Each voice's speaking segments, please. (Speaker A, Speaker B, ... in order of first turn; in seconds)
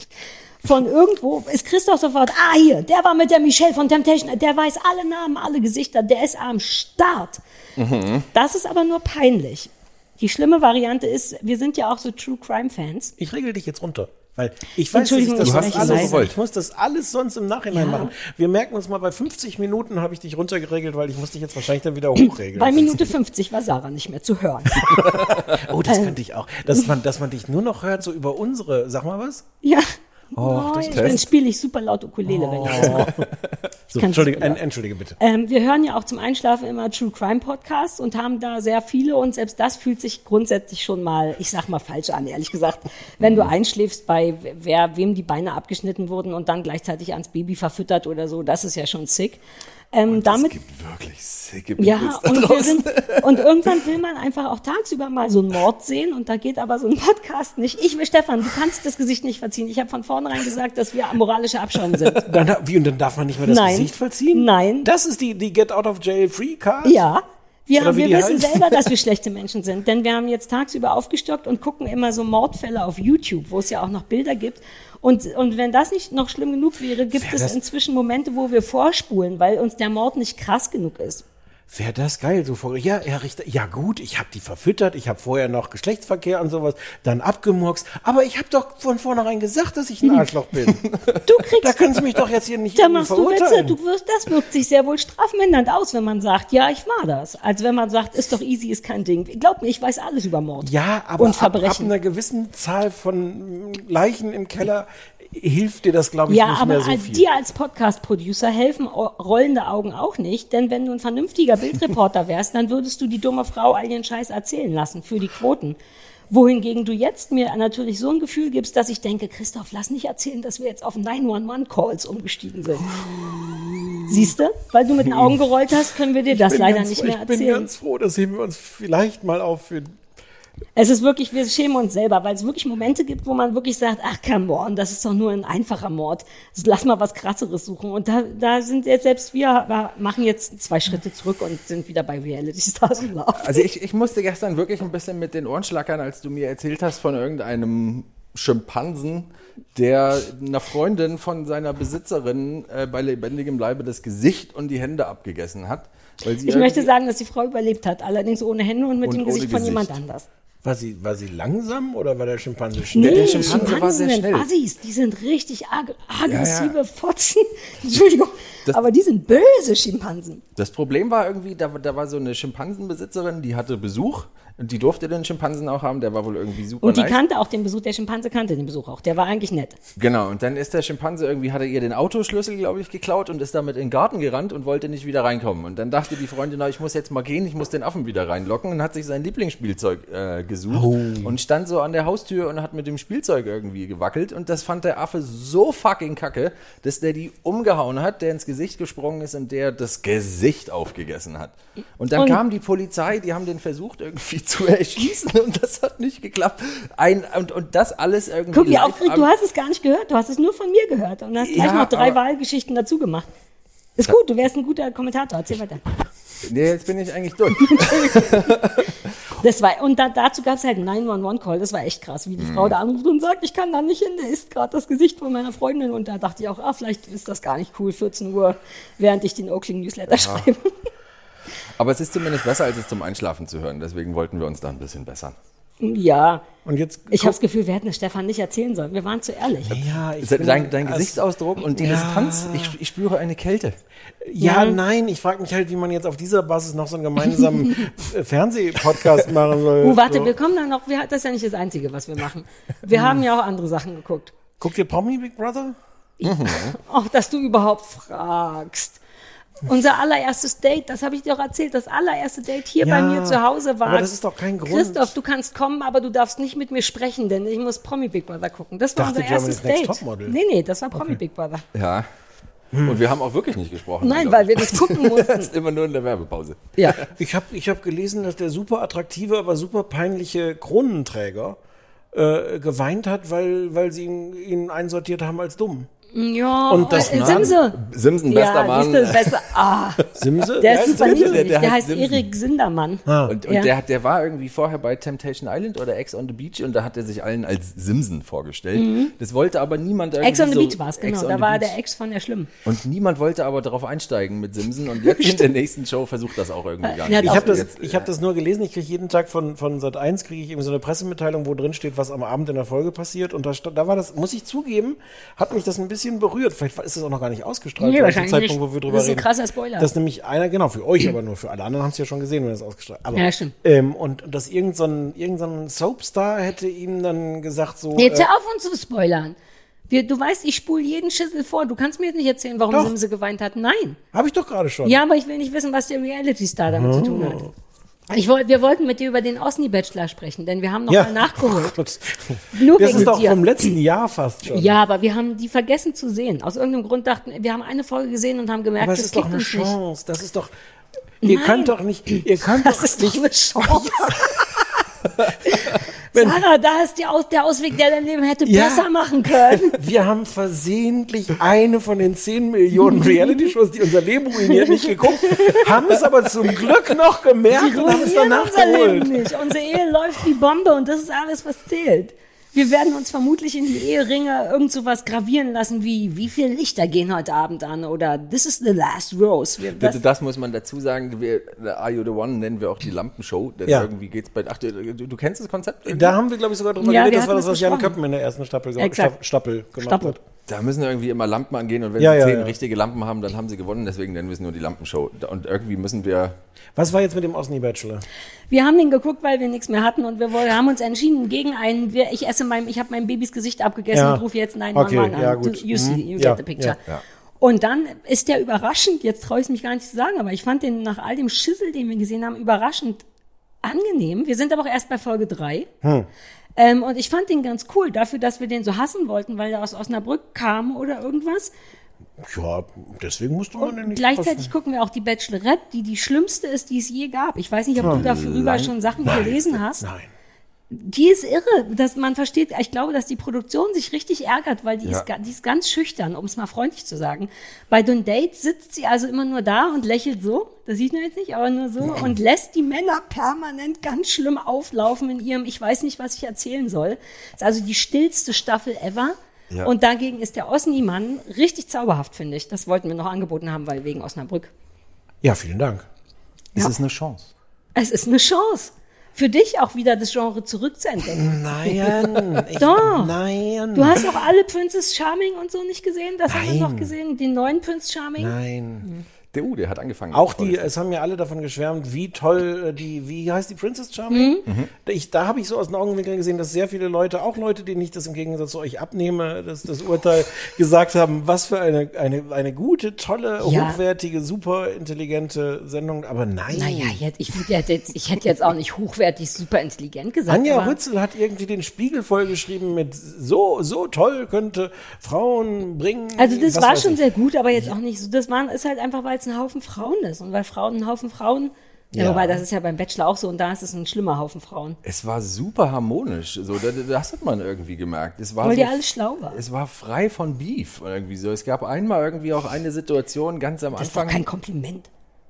Speaker A: 0.6-7.4, 8.3-13.1, 14.9-16.2, 17.7-18.1, 22.5-25.3, 25.9-26.2, 29.6-33.1, 34.0-34.6, 35.2-49.4, 49.9-50.5, 51.8-62.3, 63.5-64.9, 66.8-81.2, 91.2-91.8, 92.8-101.9, 106.3-115.8, 116.3-122.9, 124.1-127.7, 130.8-143.7, 156.4-160.3, 162.9-170.4, 176.8-179.8, 208.5-213.3, 214.0-215.8, 217.7-218.5, 219.4-230.7, 235.8-236.4, 237.1-239.8, 244.4-244.8, 249.8-254.3, 256.2-259.0, 259.6-264.1, 264.7-271.6, 274.0-275.5, 286.1-290.1, 290.6-293.7, 298.8-299.1, 300.2-302.5, 306.8-307.7, 317.8-319.9, 323.1-323.5, 328.0-329.4, 329.9-334.0, 334.9-337.5, 338.1-341.8, 342.5-343.7, 344.5-349.8, 351.2-354.4, 355.5-359.8, 362.9-363.5, 364.5-365.7, 367.5-380.0, 386.8-387.9, 388.8-389.1, 389.8-390.2, 398.5-406.8, 407.4-413.0, 413.6-415.7, 416.6-421.5, 423.6-429.9, 430.7-454.5, 457.8-463.1, 463.7-469.0, 474.1-474.4, 483.4-483.8, 486.5-490.8, 496.2-504.8, 508.4-509.4, 513.8-514.9
Speaker B: 7.8-8.3, 15.4-16.4, 25.2-25.6, 30.9-31.2, 32.7-33.3, 43.2-43.5, 50.1-53.3, 143.4-156.9, 159.0-159.9, 163.0-164.5, 166.2-166.8, 170.6-177.2, 180.0-209.3, 211.4-212.2, 216.4-218.9, 222.4-222.8, 230.1-230.5, 231.8-235.3, 240.2-243.8, 256.2-256.8, 271.7-272.1, 272.8-277.1, 286.7-289.4, 290.8-292.3, 293.3-301.8, 302.6-308.1, 379.8-386.2, 390.5-396.4, 427.8-429.5, 456.6-457.3, 469.3-470.7, 504.8-508.8, 509.3-514.2
Speaker C: 13.2-23.1, 24.8-29.5, 30.4-31.2, 32.3-33.3, 33.9-35.2, 62.2-67.0, 67.8-68.9, 77.1-77.6, 81.7-90.8, 91.6-93.8, 100.6-107.2, 122.9-124.0, 126.3-130.0, 160.6-163.8, 190.7-191.4, 236.7-237.4, 239.7-242.8, 244.2-250.3, 252.9-253.2, 254.6-255.8, 262.8-265.1, 269.0-270.4, 272.7-273.0, 277.1-281.6, 282.1-285.9, 286.7-287.6, 290.1-291.4, 293.1-293.3, 307.1-328.3, 334.1-335.0, 336.7-337.5, 340.9-344.8, 348.8-350.5, 351.2-354.4, 356.1-356.4, 358.4-358.9, 359.6-369.3, 385.9-390.2, 392.0-392.6, 396.8-398.1, 403.9-406.8, 415.8-416.1, 422.2-424.5, 427.8-428.1, 429.0-430.1, 455.2-455.9, 461.1-464.1, 466.3-466.9, 468.2-468.9, 470.1-487.0, 490.3-497.0, 501.9-502.4